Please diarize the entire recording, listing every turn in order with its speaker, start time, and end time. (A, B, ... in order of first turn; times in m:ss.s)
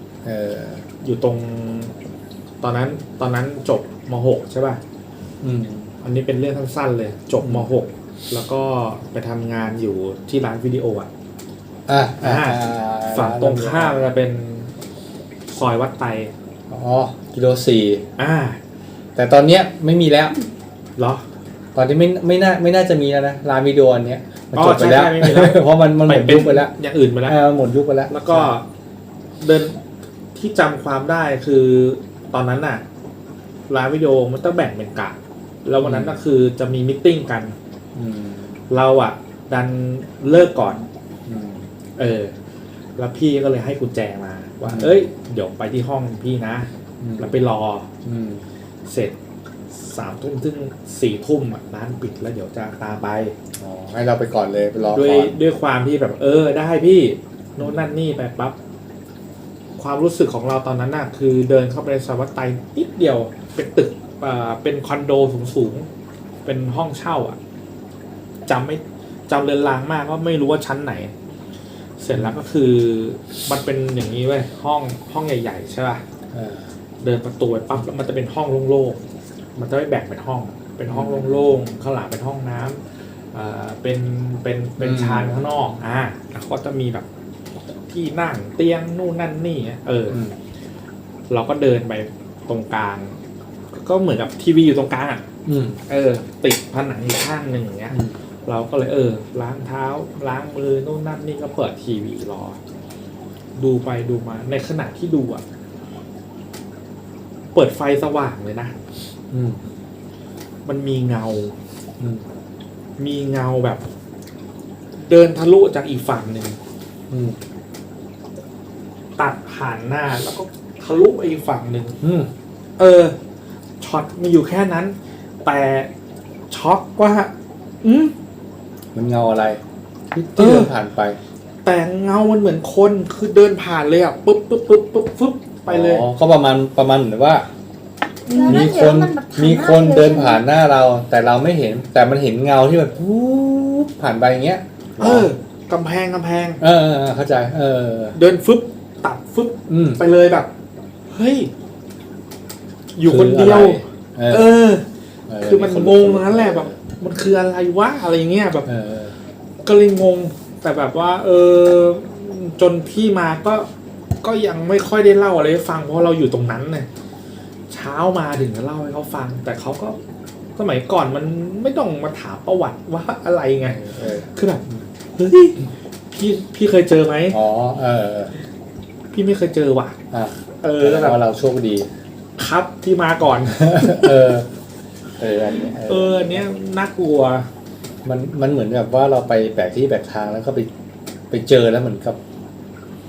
0:00.2-0:00.8 A
0:01.0-0:01.9 B
0:02.6-0:04.8 B
0:05.4-0:05.9 A
0:06.0-0:11.1 B
0:07.4-0:07.7 A
0:11.9-0:14.0 A
0:12.2-0:14.7 B
0:15.5-0:16.3 B
0:16.7-0:18.0 A
0:18.2-0:18.6 B
0:19.2-0:20.4 A
0:21.0-0:21.2 B
0:21.8-0:26.7 A
0:24.5-0:27.4 B
0:27.2-0:28.5 A
0:28.1-0:28.7 B
0:29.4-0:29.8 B
0:30.4-0:32.8 B
0:33.7-0:37.6 B
0:35.8-0:36.2 A
0:38.0-0:38.6 A
0:38.7-0:40.8 B
0:41.3-0:41.7 A
0:42.0-0:42.3 B
0:43.0-0:47.9 B
0:44.7-0:45.0 A
0:47.0-0:47.4 A
0:48.0-0:48.4 A
0:48.9-0:49.2 B
0:49.7-0:53.4 B
0:53.6-0:55.4 A
0:54.9-0:58.6 B
0:59.8-1:05.9 B
1:06.4-1:07.4 B
1:08.5-1:11.1 B
1:12.0-1:16.0 B
1:16.3-1:16.7 A
1:17.0-1:19.0 B
1:19.6-1:22.8 B
1:20.9-1:21.5 A
1:23.3-1:27.1 B
1:24.8-1:25.5 A
1:27.9-1:30.2 B
1:31.3-1:33.2 B
1:33.7-1:35.3 B
1:35.4-1:35.8 A
1:35.9-1:42.6 B
1:43.6-1:45.4 B
1:47.5-1:48.8 B
1:49.3-1:49.6 A
1:50.6-1:51.6 B
1:52.0-1:52.2 A
1:53.0-1:53.8 B
1:55.0-1:56.6 B
1:57.1-1:57.4 A
1:59.2-2:02.0 B
2:02.0-2:02.3 A
2:02.8-2:03.2 B
2:03.8-2:05.9 B
2:06.5-2:07.3 B
2:07.8-2:08.1 B
2:08.9-2:11.2 A
2:10.4-2:10.7 B
2:11.6-2:16.0 B
2:15.7-2:17.5 A
2:18.3-2:20.4 C
2:18.4-2:25.3 A
2:25.0-2:26.6 B
2:26.6-2:28.2 A
2:28.1-2:30.5 B
2:29.7-2:30.0 A
2:31.1-2:31.5 B
2:32.9-2:34.8 B
2:33.1-2:34.5 A
2:35.3-2:36.8 A
2:35.4-2:38.7 B
2:38.7-2:39.1 A
2:39.6-2:43.7 B
2:44.2-2:46.9 B
2:47.7-2:50.0 B
2:50.6-2:57.4 B
2:53.6-2:54.8 A
2:57.3-2:58.4 A
2:59.1-3:00.0 B
3:00.1-3:01.9 A
3:00.6-3:01.2 B
3:02.4-3:04.2 B
3:03.6-3:04.5 A
3:05.2-3:06.5 A
3:05.8-3:07.5 B
3:08.0-3:10.7 A
3:11.3-3:12.2 A